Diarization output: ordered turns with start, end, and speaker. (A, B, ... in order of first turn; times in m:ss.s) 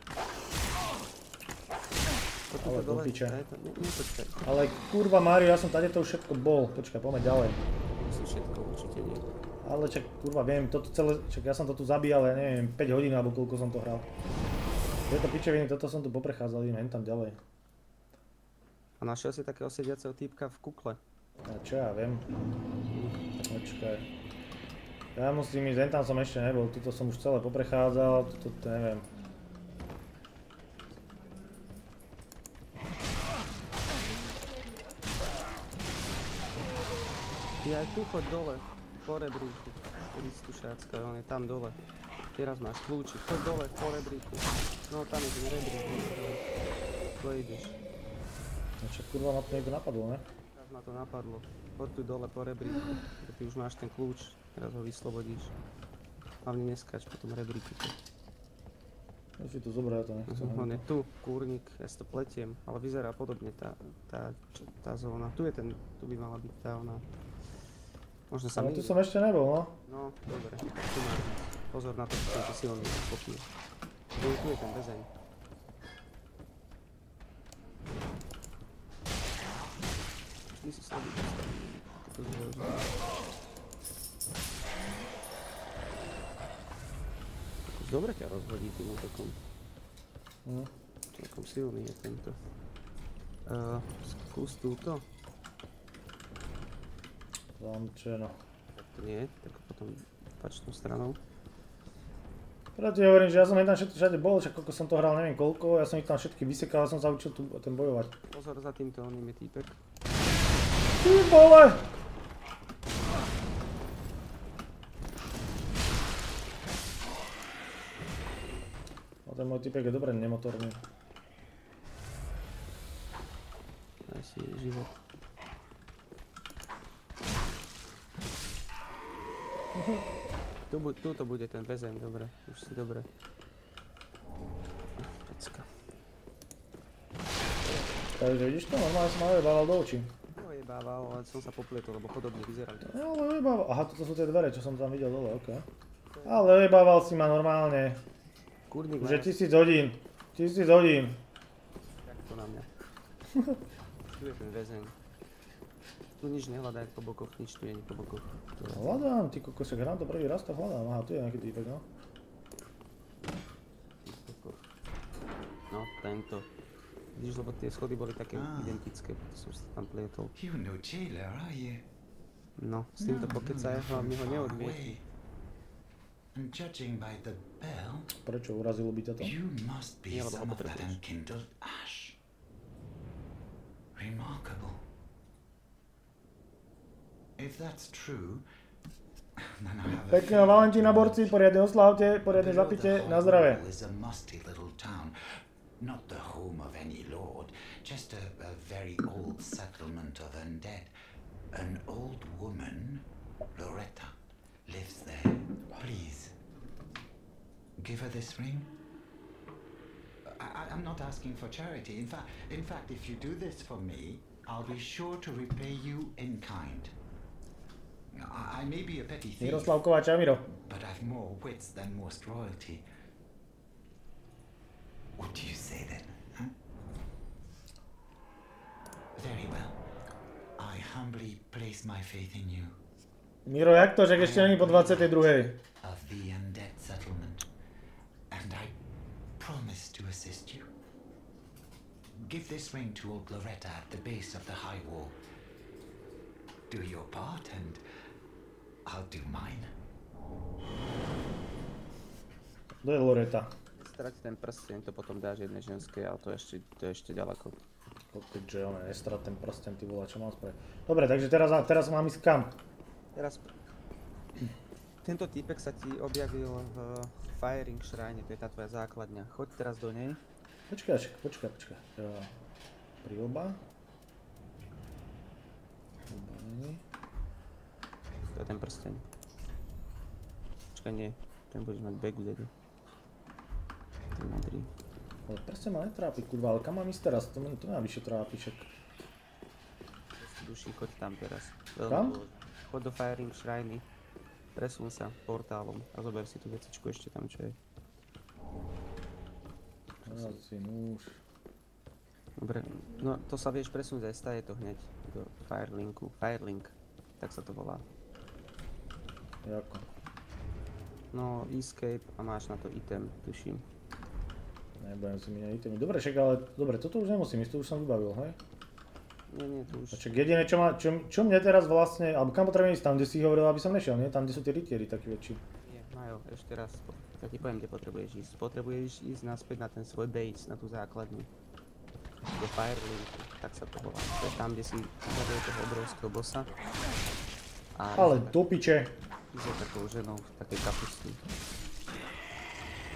0:02.5-0:04.5 A
0:02.6-0:03.4 B
0:04.4-0:07.6 B
0:08.0-0:09.2 A
0:09.6-0:14.1 B
0:15.1-0:17.4 B
0:19.0-0:21.0 A
0:21.4-0:22.3 B
0:22.9-0:23.2 A
0:23.4-0:24.1 B
0:25.2-0:29.1 B
0:37.6-0:41.8 A
0:42.4-0:46.4 A
0:47.2-0:47.8 A
0:48.8-0:50.2 B
0:50.5-0:55.5 A
0:56.4-0:58.0 A
0:59.4-1:00.8 B
1:00.3-1:07.0 A
1:08.3-1:09.0 A
1:08.6-1:09.8 B
1:09.9-1:13.5 A
1:14.1-1:15.1 A
1:20.6-1:23.0 A
1:27.7-1:29.4 A
1:30.4-1:30.7 B
1:31.1-1:32.4 A
1:33.5-1:35.1 A
1:37.6-1:38.4 B
1:38.7-1:41.2 A
1:42.8-1:48.2 B
1:48.3-1:49.8 A
1:51.0-1:51.8 B
1:59.3-2:00.8 B
2:04.1-2:05.0 A
2:09.8-2:10.0 B
2:10.7-2:13.1 A
2:15.0-2:15.7 A
2:18.2-2:20.1 B
2:20.3-2:23.0 A
2:22.8-2:25.7 B
2:26.1-2:26.5 A
2:26.2-2:28.0 B
2:28.7-2:29.4 A
2:29.0-2:31.2 B
2:32.0-2:32.7 A
2:33.3-2:33.6 B
2:34.1-2:35.0 A
2:36.2-2:39.0 A
2:38.7-2:41.9 B
2:44.0-2:44.6 A
2:45.7-2:46.5 A
2:47.2-2:50.4 A
2:48.3-2:48.8 C
2:50.4-2:51.9 C
2:52.6-2:55.0 A
2:53.0-2:55.0 C
2:56.3-2:58.1 C
2:58.2-2:59.4 B
2:59.2-3:02.2 C
3:00.1-3:01.0 A
3:04.0-3:04.8 C
3:07.4-3:08.4 C
3:09.4-3:11.3 C
3:10.1-3:13.6 B
3:12.4-3:15.2 C
3:15.8-3:20.9 C
3:21.5-3:24.1 C
3:24.7-3:26.4 C
3:27.8-3:28.7 C
3:30.3-3:37.0 C
3:38.1-3:39.8 C
3:39.4-3:40.5 B
3:40.6-3:42.9 C
3:45.2-3:46.6 C
3:49.2-3:49.8 C
3:50.6-3:52.8 C
3:53.5-3:55.6 B
3:54.2-3:55.2 A
3:55.8-3:57.5 C
3:58.3-3:58.8 C
3:59.4-4:00.7 C
4:02.2-4:05.2 C
4:06.7-4:07.8 C
4:08.8-4:09.7 C
4:12.8-4:13.5 B
4:13.8-4:17.6 A
4:18.1-4:22.6 B
4:23.2-4:23.5 A
4:25.0-4:30.2 A
4:30.7-4:32.3 B
4:33.0-4:33.6 B
4:36.1-4:36.8 B
4:38.3-4:39.1 A
4:40.7-4:42.5 A
4:44.2-4:44.7 A
4:45.3-4:48.7 B
4:50.2-4:53.9 A
4:51.9-4:52.2 B
4:54.6-4:57.6 A
5:00.0-5:00.4 A
5:00.1-5:01.2 B
5:02.4-5:07.8 A
5:09.4-5:09.8 B
5:11.1-5:13.6 A
5:14.8-5:18.4 B
5:19.3-5:20.1 A
5:19.9-5:25.4 B
5:25.6-5:31.3 A
5:32.3-5:36.6 A
5:37.8-5:38.4 A
5:37.9-5:39.0 B
5:39.3-5:41.2 A